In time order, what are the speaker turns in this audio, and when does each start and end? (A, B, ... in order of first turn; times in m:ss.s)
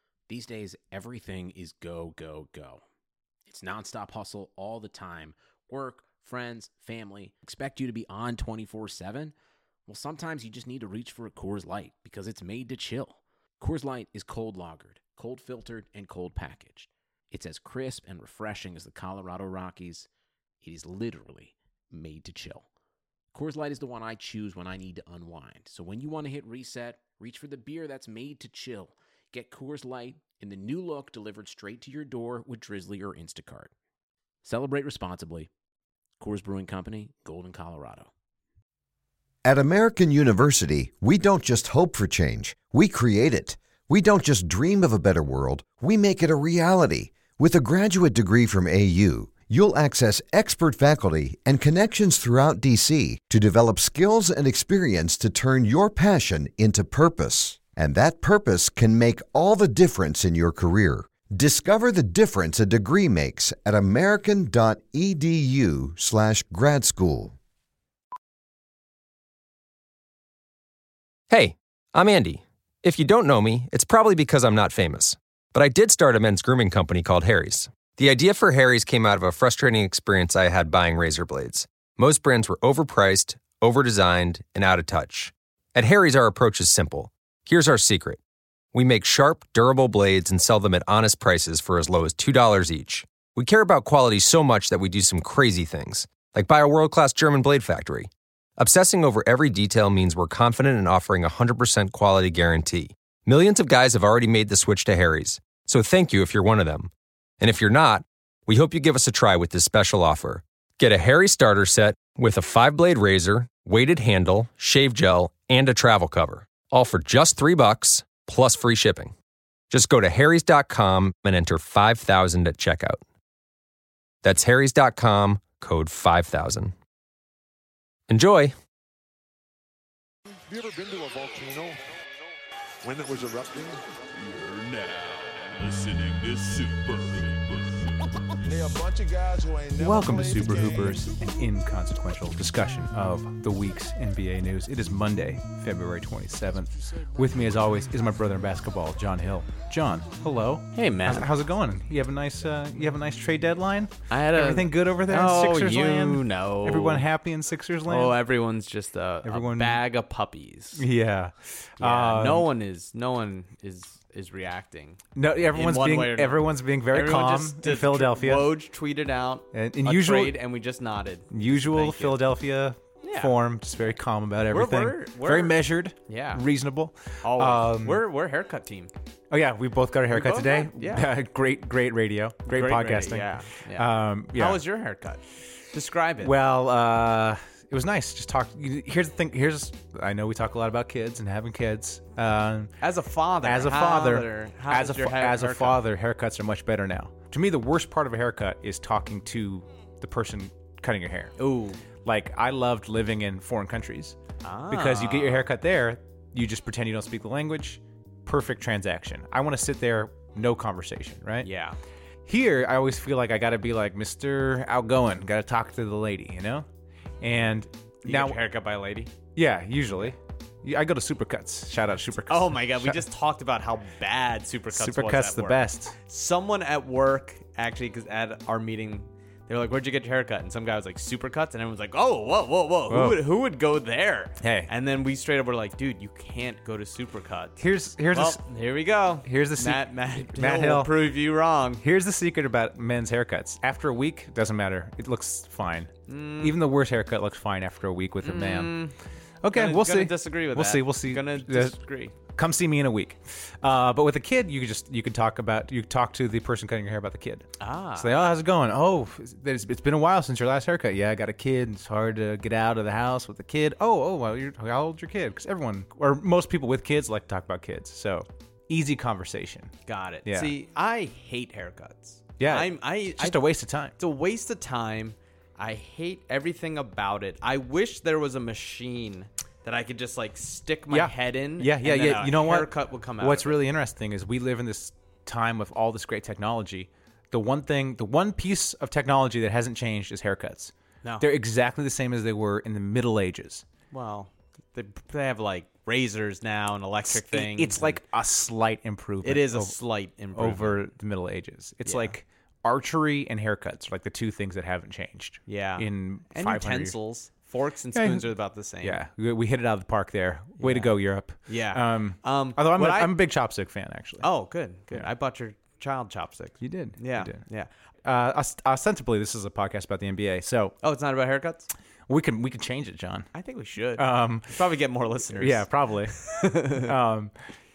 0:00.3-0:02.8 A
0:03.5-0:09.3 A
0:09.9-0:20.1 A
0:20.6-0:22.7 A
0:23.3-0:33.7 A
0:34.4-0:35.5 A
0:36.2-0:38.1 A
0:39.4-1:07.3 B
1:11.3-1:28.2 C
1:28.7-1:59.1 C
1:59.7-2:03.0 C
2:04.2-2:06.8 C
2:08.1-2:08.5 C
2:10.4-2:12.0 D
2:12.8-2:13.8 D
2:14.1-2:18.7 E
2:18.4-2:21.0 D
2:19.8-2:38.2 F
2:30.8-2:31.3 G
2:34.1-2:37.1 G
2:37.8-2:40.8 G
2:39.2-2:39.8 F
2:40.8-2:42.5 F
2:41.8-2:45.0 G
2:45.2-2:48.5 F
2:45.5-2:52.2 G
2:49.5-2:50.4 F
2:51.3-2:58.0 F
2:53.0-2:53.4 G
2:54.5-2:55.5 G
2:56.1-2:56.4 G
2:57.2-2:58.9 G
2:59.3-3:04.6 F
3:00.1-3:01.1 G
3:02.5-3:06.3 G
3:06.2-3:12.7 F
3:12.8-3:15.8 G
3:13.4-3:21.3 F
3:21.4-3:21.8 G
3:22.0-3:24.2 F
3:24.4-3:25.5 G
3:24.7-3:31.5 F
3:31.4-3:31.8 G
3:32.2-3:36.7 F
3:37.2-3:38.4 F
3:38.0-3:39.2 G
3:39.3-3:43.0 F
3:42.3-4:01.8 G
3:44.7-3:46.0 F
3:52.9-3:53.2 F
3:54.4-3:54.7 F
3:57.6-3:58.4 F
3:59.2-4:00.9 F
4:01.8-4:08.8 F
4:06.1-4:06.6 G
4:08.2-4:09.0 G
4:09.4-4:11.8 F
4:09.5-4:12.2 G
4:12.3-4:29.7 F
4:17.6-4:18.1 G
4:29.9-4:33.4 G
4:30.2-4:30.5 F
4:32.4-4:33.9 F
4:34.0-4:43.6 G
4:40.9-4:53.6 F
4:53.9-4:58.0 G
4:57.1-4:59.8 F
4:59.2-5:00.9 G
5:00.3-5:07.0 F
5:01.8-5:02.1 G
5:05.5-5:09.0 G
5:07.9-5:14.3 F
5:10.6-5:10.9 G
5:11.5-5:13.2 G
5:14.2-5:17.7 G
5:16.6-5:17.4 F
5:18.0-5:20.8 F
5:20.8-5:21.7 G
5:22.1-5:23.3 F
5:23.4-5:26.9 G
5:24.0-5:24.6 F
5:25.3-5:27.3 F